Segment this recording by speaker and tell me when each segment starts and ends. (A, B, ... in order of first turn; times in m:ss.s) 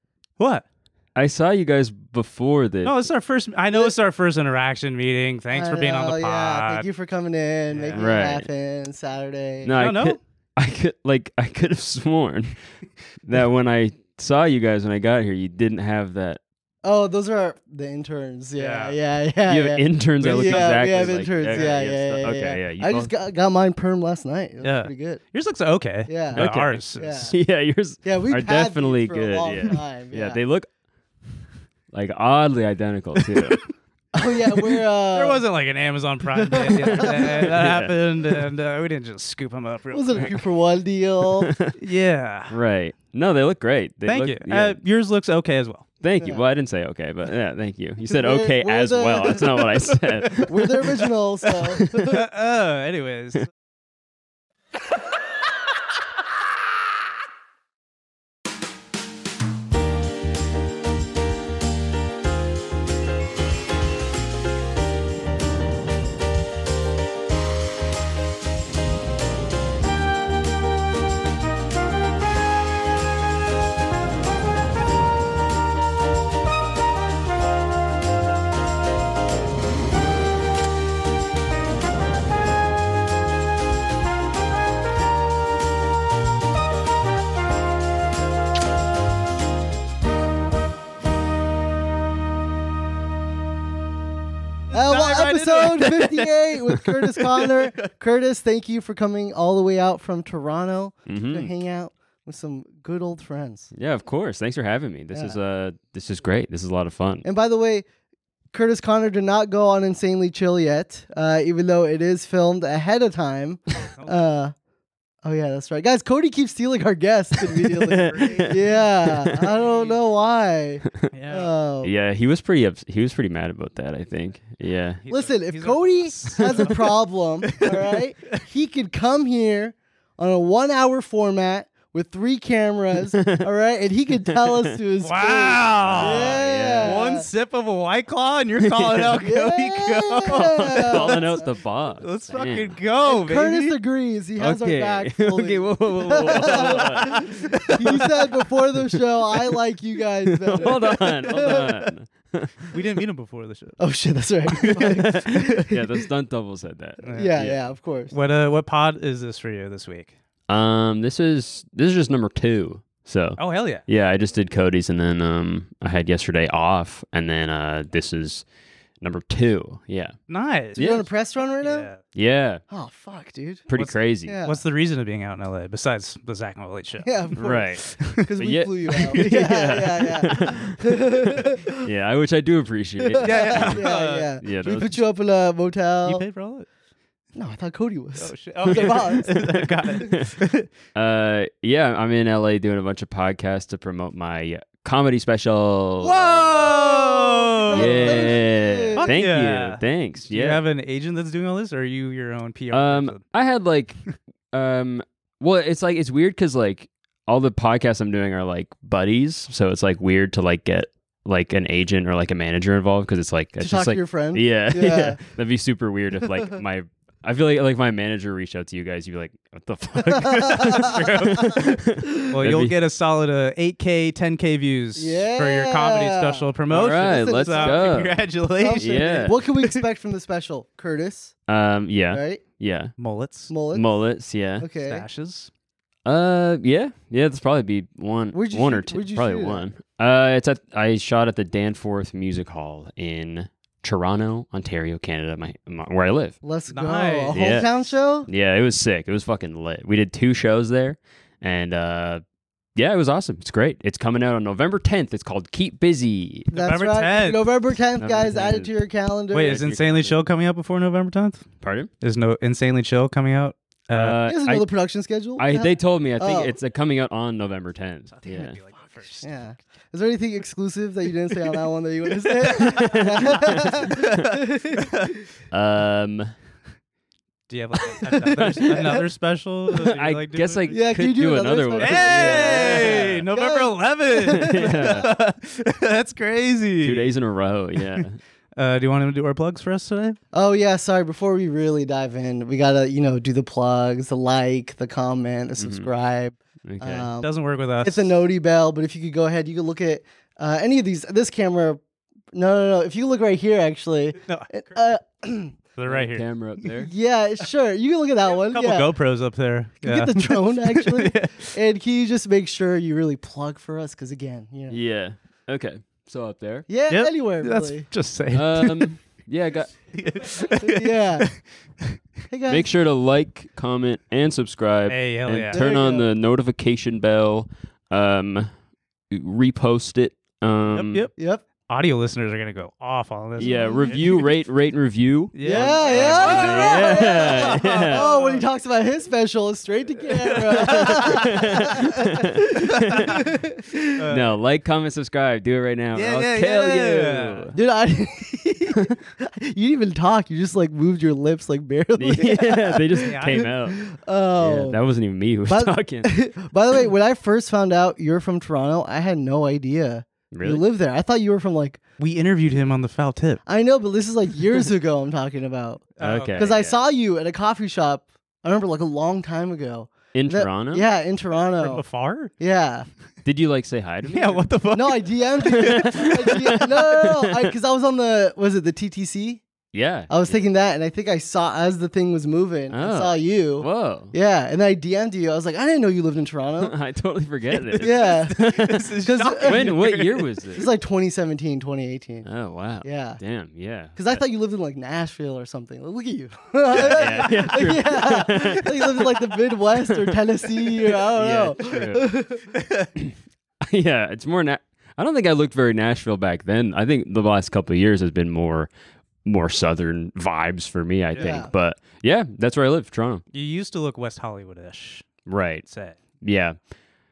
0:00.4-0:00.6 A
0:01.2-0:03.0 B
0:02.8-0:06.9 A
0:05.5-0:09.7 C
0:07.7-0:08.0 A
0:07.9-0:08.5 B
0:09.6-0:12.6 B
0:09.8-0:10.2 A
0:13.2-0:16.4 B
0:16.8-0:25.2 C
0:18.6-0:19.0 A
0:19.5-0:23.1 B
0:20.2-0:21.8 A
0:24.6-0:27.1 A
0:26.1-0:26.4 C
0:26.4-0:30.7 B
0:27.0-0:27.3 C
0:28.0-0:30.4 C
0:31.9-0:33.6 B
0:33.2-0:33.6 A
0:34.1-0:35.4 C
0:35.1-0:40.4 A
0:36.4-0:37.4 C
0:36.8-0:38.4 B
0:39.9-0:41.5 C
0:41.4-0:41.8 B
0:41.8-0:42.6 A
0:42.5-0:44.8 B
0:44.1-0:45.9 A
0:46.0-0:50.6 B
0:48.0-0:49.6 C
0:50.4-0:52.2 C
0:52.1-0:53.5 A
1:34.7-1:37.8 A
1:34.7-1:43.7 C
1:41.1-1:41.5 B
1:43.7-1:47.2 B
1:47.2-1:47.8 C
1:48.5-1:54.5 C
1:53.9-1:54.2 A
1:55.2-2:01.9 C
1:57.9-1:58.5 B
1:57.9-1:58.8 A
1:59.0-1:59.5 B
1:59.4-2:00.0 A
2:01.1-2:01.5 A
2:01.8-2:05.0 B
2:05.0-2:08.4 A
2:05.1-2:17.3 C
2:13.1-2:13.5 B
2:14.2-2:14.8 B
2:15.0-2:21.4 A
2:15.7-2:17.0 B
2:18.6-2:19.2 B
2:19.2-2:21.4 C
2:20.2-2:22.8 B
2:22.0-2:23.8 A
2:23.0-2:31.8 C
2:24.4-2:28.0 B
2:26.2-2:27.7 A
2:30.2-2:32.7 B
2:32.7-2:33.8 A
2:33.8-2:36.0 C
2:34.6-2:37.6 B
2:34.7-2:35.0 A
2:37.0-2:37.4 A
2:37.2-2:38.1 C
2:38.1-2:40.2 A
2:40.5-2:48.4 B
2:43.4-2:43.8 A
2:49.0-2:50.2 B
2:50.3-2:51.0 A
2:50.8-2:51.0 B
2:50.8-2:51.9 C
2:51.6-2:52.0 A
2:52.1-2:52.6 B
2:52.7-2:53.7 C
2:53.7-2:54.4 B
2:53.7-2:57.1 A
2:54.2-2:54.6 C
2:57.0-3:01.8 C
2:57.4-3:03.9 B
2:59.0-2:59.3 A
3:03.1-3:06.2 C
3:03.2-3:04.3 A
3:04.4-3:05.0 B
3:06.1-3:06.7 A
3:07.4-3:09.3 C
3:08.2-3:10.7 A
3:08.7-3:10.3 B
3:10.9-3:16.5 B
3:16.0-3:19.1 C
3:16.4-3:18.4 A
3:17.7-3:20.6 B
3:19.0-3:23.2 A
3:22.7-3:24.0 B
3:24.5-3:42.8 B
3:33.6-3:35.2 C
3:40.0-3:40.9 C
3:40.6-3:41.5 A
3:42.3-3:49.8 A
3:45.0-3:47.9 C
3:46.7-3:49.4 B
3:48.6-3:51.3 C
3:51.5-3:52.9 B
3:52.1-3:52.4 C
3:53.0-3:53.5 A
3:53.5-3:53.9 C
3:53.7-3:54.7 B
3:54.6-3:55.0 C
3:54.8-3:55.5 A
3:56.0-4:06.4 B
3:58.3-3:59.6 C
4:06.4-4:08.3 C
4:06.7-4:07.4 A
4:07.3-4:12.2 B
4:12.8-4:16.5 B
4:16.5-4:19.6 C
4:16.6-4:17.5 A
4:18.0-4:18.8 B
4:19.3-4:21.4 A
4:19.4-4:20.2 B
4:21.6-4:21.9 B
4:22.0-4:24.2 A
4:23.9-4:24.7 B
4:24.3-4:26.5 C
4:25.4-4:28.6 B
4:28.1-4:29.3 A
4:29.2-4:34.9 C
4:32.4-4:33.1 A
4:32.4-4:34.1 B
4:33.7-4:35.2 A
4:35.5-4:36.3 B
4:37.5-4:40.7 A
4:38.2-4:38.8 B
4:39.8-4:43.2 B
4:40.7-4:44.7 C
4:41.8-4:47.1 A
4:44.3-4:45.1 B
4:46.8-4:48.2 B
4:48.6-4:50.2 A
4:50.3-5:01.8 C
4:55.6-4:55.9 B
4:56.6-4:57.1 B
4:57.2-4:58.2 A
5:02.3-5:05.6 C
5:04.3-5:04.7 A
5:05.8-5:06.3 A
5:05.9-5:06.9 B
5:06.8-5:08.9 C
5:08.4-5:11.5 A
5:09.8-5:14.8 C
5:14.7-5:16.7 B
5:16.7-5:17.9 C
5:16.9-5:19.2 A
5:18.3-5:20.0 B
5:19.9-5:21.2 A
5:20.6-5:21.3 C
5:22.3-5:22.7 C
5:22.5-5:28.5 B
5:24.9-5:25.6 A
5:25.5-5:26.1 C
5:29.1-5:31.1 B
5:30.7-5:31.1 A
5:31.2-5:31.4 C
5:31.7-5:34.3 A
5:33.4-5:38.1 B
5:33.5-5:33.9 C
5:35.4-5:38.5 A
5:35.4-5:42.2 C
5:40.2-5:41.7 A
5:40.7-5:43.2 B
5:42.8-5:43.2 A
5:43.0-5:44.0 C
5:44.0-5:44.3 A
5:44.1-5:47.5 B
5:45.9-5:47.5 A
5:47.5-5:54.8 C
5:52.0-5:53.8 B
5:53.0-5:53.5 A
5:54.4-5:56.1 B
5:55.5-6:01.8 C
6:00.3-6:00.6 B
6:02.0-6:03.4 A
6:03.5-6:11.8 C
6:06.0-6:06.5 A
6:06.0-6:06.8 B
6:10.1-6:10.8 B
6:11.6-6:12.3 A
6:12.4-6:12.9 C
6:13.2-6:14.5 B
6:14.1-6:16.1 A
6:14.7-6:19.4 C
6:15.5-6:17.5 B
6:19.7-6:20.5 B
6:20.1-6:26.8 C
6:22.7-6:24.2 B
6:26.6-6:30.7 B
6:27.6-6:30.3 A
6:27.8-6:28.4 C
6:29.0-6:29.7 C
6:30.6-6:32.3 C
6:32.2-6:34.2 B
6:32.8-6:33.2 C
6:34.0-6:42.5 C
6:36.7-6:39.0 B
6:36.8-6:37.3 A
6:39.8-6:40.2 B
6:40.8-6:42.1 B
6:42.5-6:42.9 A
6:43.0-6:48.7 B
6:49.2-6:53.2 B
6:51.1-6:51.5 A
6:51.2-6:51.5 C
6:53.3-6:55.1 A
6:55.3-6:55.7 B
6:55.6-6:56.0 A
6:56.2-6:56.6 B